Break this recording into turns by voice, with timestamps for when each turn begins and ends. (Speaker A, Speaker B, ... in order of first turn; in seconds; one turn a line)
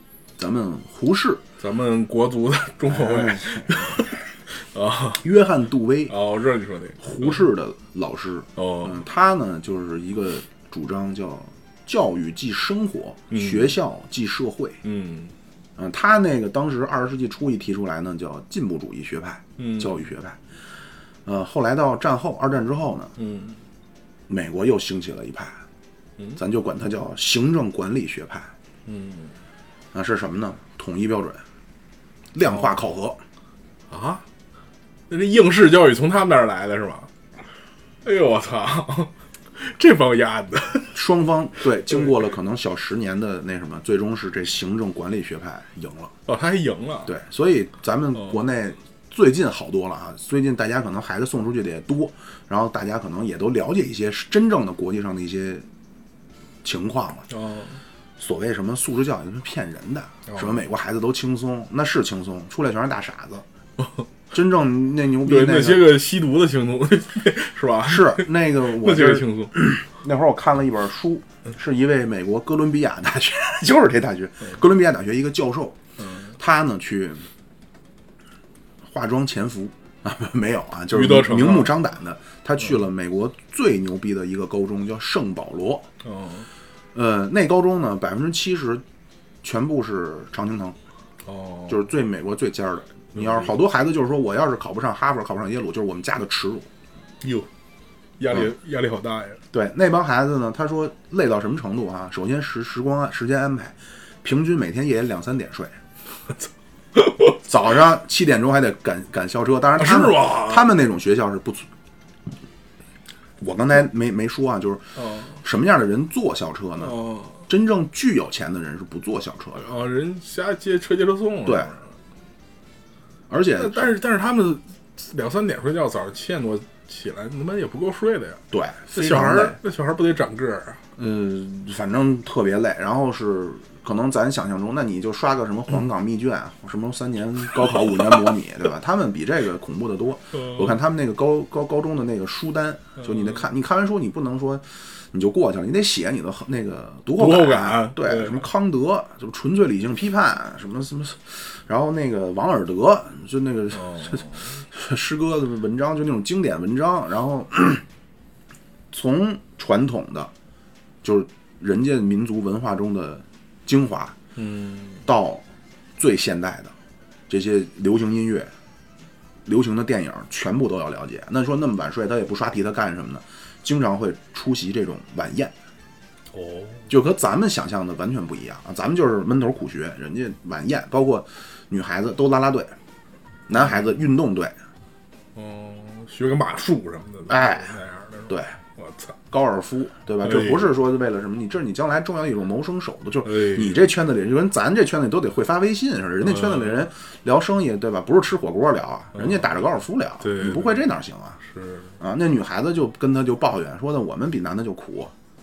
Speaker A: 0.4-1.4
Speaker B: 1.6-5.2
Speaker A: 2.9-4.0
Speaker A: 5.2-6.1
Speaker B: 6.1-7.4
Speaker A: 7.0-14.8
Speaker B: 8.6-9.0
Speaker B: 13.3-13.7
Speaker B: 14.8-15.3
Speaker A: 15.8-20.4
Speaker B: 19.6-19.9
Speaker A: 21.2-23.1
Speaker B: 23.2-23.6
Speaker A: 24.3-25.6
Speaker A: 26.4-28.5
Speaker B: 28.9-29.4
Speaker A: 29.9-31.4
Speaker A: 32.3-33.2
Speaker B: 33.9-34.2
Speaker B: 35.1-37.1
Speaker B: 38.0-41.0
Speaker A: 40.9-46.1
Speaker B: 46.3-47.1
Speaker A: 47.0-55.6
Speaker A: 56.6-57.3
Speaker B: 57.3-57.8
Speaker A: 58.2-63.4
Speaker B: 60.3-60.6
Speaker A: 64.3-66.0
Speaker B: 65.2-69.6
Speaker A: 67.8-75.8
Speaker B: 76.0-76.3
Speaker A: 76.4-77.2
Speaker A: 78.8-85.8
Speaker B: 80.9-81.7
Speaker B: 86.0-86.5
Speaker A: 86.9-88.8
Speaker A: 89.4-90.8
Speaker B: 91.2-91.8
Speaker A: 91.7-96.7
Speaker B: 93.1-93.5
Speaker B: 97.2-97.5
Speaker B: 98.2-99.4
Speaker A: 99.5-105.7
Speaker B: 106.9-107.3
Speaker A: 107.4-111.7
Speaker B: 109.8-110.7
Speaker A: 113.4-114.9
Speaker B: 115.0-115.4
Speaker A: 115.4-119.6
Speaker B: 116.8-117.4
Speaker B: 119.6-121.8
Speaker A: 123.3-123.9
Speaker B: 123.5-128.4
Speaker A: 128.5-129.6
Speaker B: 128.9-130.8
Speaker A: 130.9-157.8
Speaker B: 143.0-143.4
Speaker B: 147.1-148.4
Speaker B: 153.8-154.5
Speaker A: 158.9-160.3
Speaker A: 161.0-164.1
Speaker B: 164.3-165.1
Speaker A: 165.1-165.4
Speaker A: 166.0-166.7
Speaker A: 167.3-168.5
Speaker A: 169.4-175.5
Speaker B: 176.3-176.9
Speaker A: 176.9-182.7
Speaker A: 183.5-184.5
Speaker B: 183.5-183.8
Speaker B: 185.3-189.1
Speaker A: 187.3-187.7
Speaker A: 188.3-188.5
Speaker A: 189.3-201.4
Speaker B: 190.2-190.7
Speaker B: 193.2-193.9
Speaker B: 196.2-196.9
Speaker B: 199.1-199.5
Speaker B: 200.2-200.8
Speaker B: 201.4-201.9
Speaker A: 202.0-205.1